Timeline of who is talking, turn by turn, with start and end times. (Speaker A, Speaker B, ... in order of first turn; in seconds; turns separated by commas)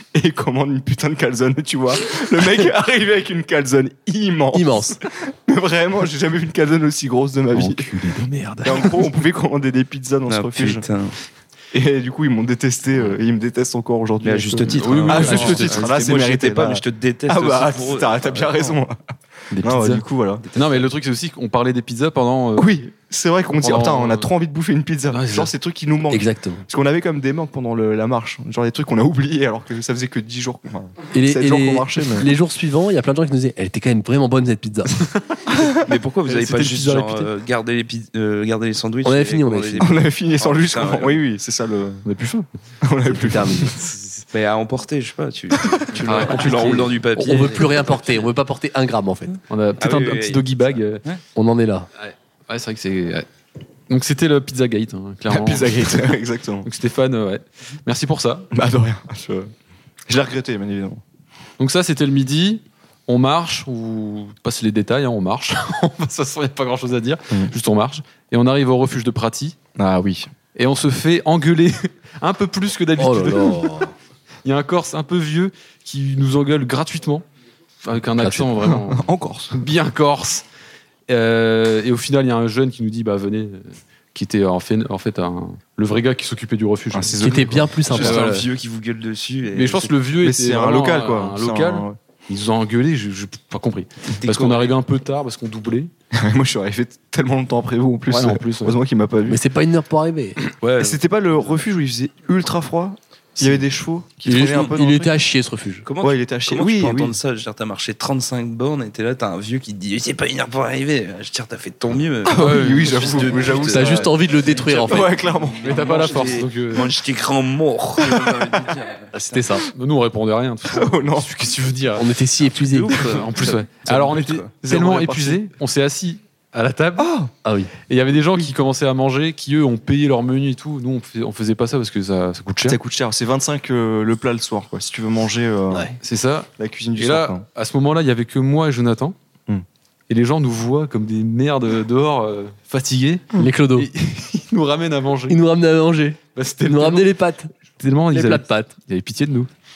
Speaker A: 0.1-8.0, Speaker B: 4.5-5.0, Speaker C: 7.5-9.0, Speaker A: 8.6-10.8, Speaker D: 10.3-11.2, Speaker A: 11.7-19.0, Speaker D: 14.2-18.7, Speaker C: 14.7-16.2, Speaker C: 19.5-22.8, Speaker A: 19.6-20.4, Speaker A: 22.6-32.3, Speaker C: 23.6-24.3, Speaker C: 25.1-25.5, Speaker B: 26.1-26.6, Speaker B: 31.1-35.0, Speaker D: 35.6-41.2, Speaker C: 36.3-37.3, Speaker B: 39.0-39.9, Speaker A: 39.8-42.0, Speaker C: 42.0-42.5, Speaker A: 42.8-43.8, Speaker B: 43.1-43.7, Speaker C: 44.0-44.2, Speaker D: 44.3-48.3, Speaker C: 46.0-46.9, Speaker B: 47.2-49.4, Speaker C: 49.5-51.0, Speaker D: 49.8-50.5, Speaker B: 51.4-51.9, Speaker C: 52.0-53.3, Speaker C: 53.9-56.1, Speaker A: 55.3-56.7, Speaker C: 56.6-58.5, Speaker A: 58.5-59.5, Speaker A: 60.1-61.0, Speaker C: 61.6-69.6, Speaker A: 69.8-70.3, Speaker C: 70.5-73.8, Speaker B: 73.0-73.9, Speaker C: 74.4-77.2, Speaker C: 77.8-80.4, Speaker B: 78.2-78.5, Speaker A: 78.6-79.6, Speaker C: 81.1-88.5, Speaker A: 86.9-88.2, Speaker B: 87.2-88.4, Speaker D: 87.9-89.9, Speaker C: 89.5-95.9, Speaker A: 90.2-92.0, Speaker D: 94.2-94.8, Speaker A: 96.1-99.4, Speaker C: 98.1-98.8, Speaker B: 99.3-100.4, Speaker C: 100.6-101.0, Speaker A: 100.8-105.1, Speaker B: 104.2-105.8, Speaker D: 105.8-114.2, Speaker A: 106.0-107.2, Speaker A: 112.3-114.1, Speaker C: 112.3-113.5, Speaker B: 113.7-115.1, Speaker A: 114.7-116.2, Speaker D: 114.8-119.0, Speaker C: 115.6-117.0, Speaker B: 119.1-119.7, Speaker C: 119.7-122.1, Speaker A: 120.7-121.3, Speaker B: 122.0-122.9, Speaker D: 122.6-124.5, Speaker C: 122.9-127.1, Speaker A: 124.6-125.4, Speaker A: 127.0-127.3, Speaker B: 127.5-127.7, Speaker C: 127.9-132.8, Speaker A: 132.7-135.9, Speaker C: 136.0-139.2, Speaker A: 136.6-137.4, Speaker C: 140.1-145.4, Speaker B: 143.4-143.9, Speaker B: 145.3-147.5, Speaker C: 146.3-147.1, Speaker C: 147.8-149.5, Speaker B: 148.1-148.7